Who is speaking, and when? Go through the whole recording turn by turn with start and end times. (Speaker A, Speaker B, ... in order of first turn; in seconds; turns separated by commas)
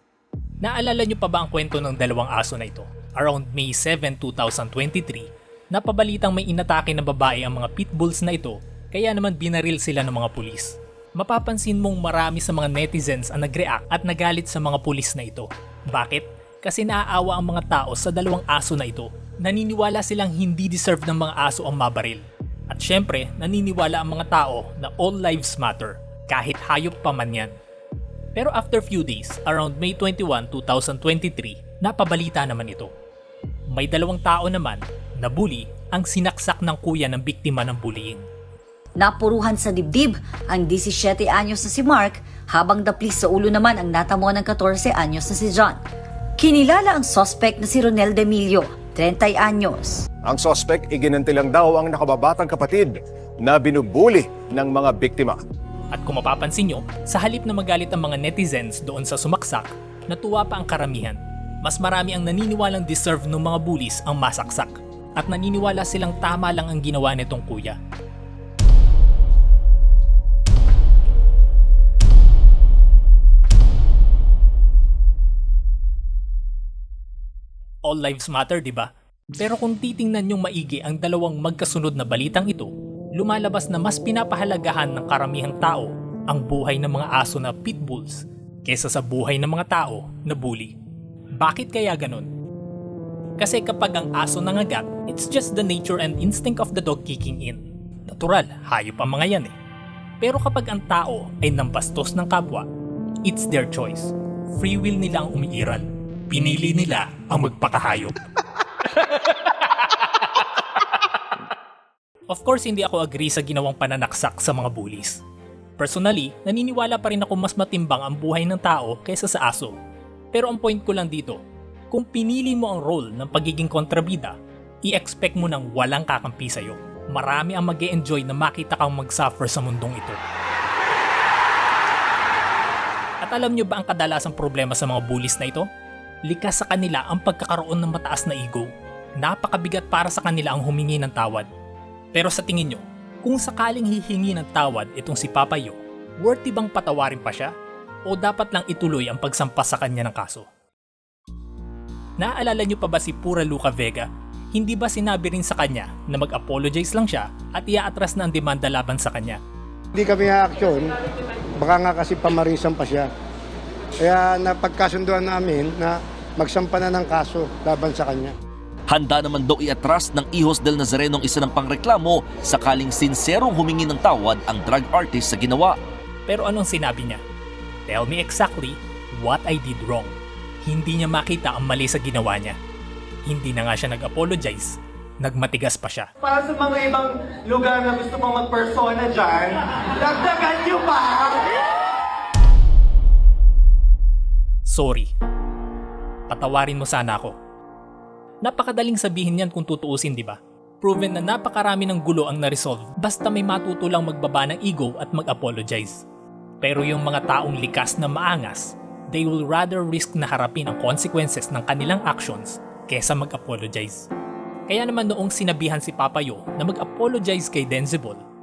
Speaker A: 0.6-27.5, Speaker A: 28.3-32.9, Speaker A: 33.7-38.2, Speaker B: 39.0-45.8, Speaker B: 46.4-50.0, Speaker C: 50.2-55.4, Speaker A: 55.9-67.8, Speaker A: 77.8-90.7, Speaker A: 91.4-92.3, Speaker A: 93.4-99.5, Speaker A: 100.2-102.7, Speaker A: 103.2-108.1, Speaker A: 112.3-115.2, Speaker A: 115.8-119.7, Speaker A: 120.3-121.4, Speaker A: 121.9-124.3, Speaker A: 124.9-130.2, Speaker A: 133.2-135.7, Speaker A: 136.3-138.7, Speaker A: 139.2-141.5, Speaker A: 142.1-147.5, Speaker A: 148.1-150.5, Speaker A: 152.2-159.4, Speaker D: 160.0-160.9, Speaker D: 161.6-163.1, Speaker D: 164.0-168.3, Speaker E: 168.9-175.8, Speaker A: 176.3-177.2, Speaker A: 177.9-180.1, Speaker A: 180.6-182.6, Speaker A: 183.2-186.1, Speaker F: 186.2-191.4, Speaker A: 194.7-195.1, Speaker A: 196.3-197.3, Speaker A: 198.4-206.0, Speaker A: 206.6-214.1, Speaker A: 214.7-218.2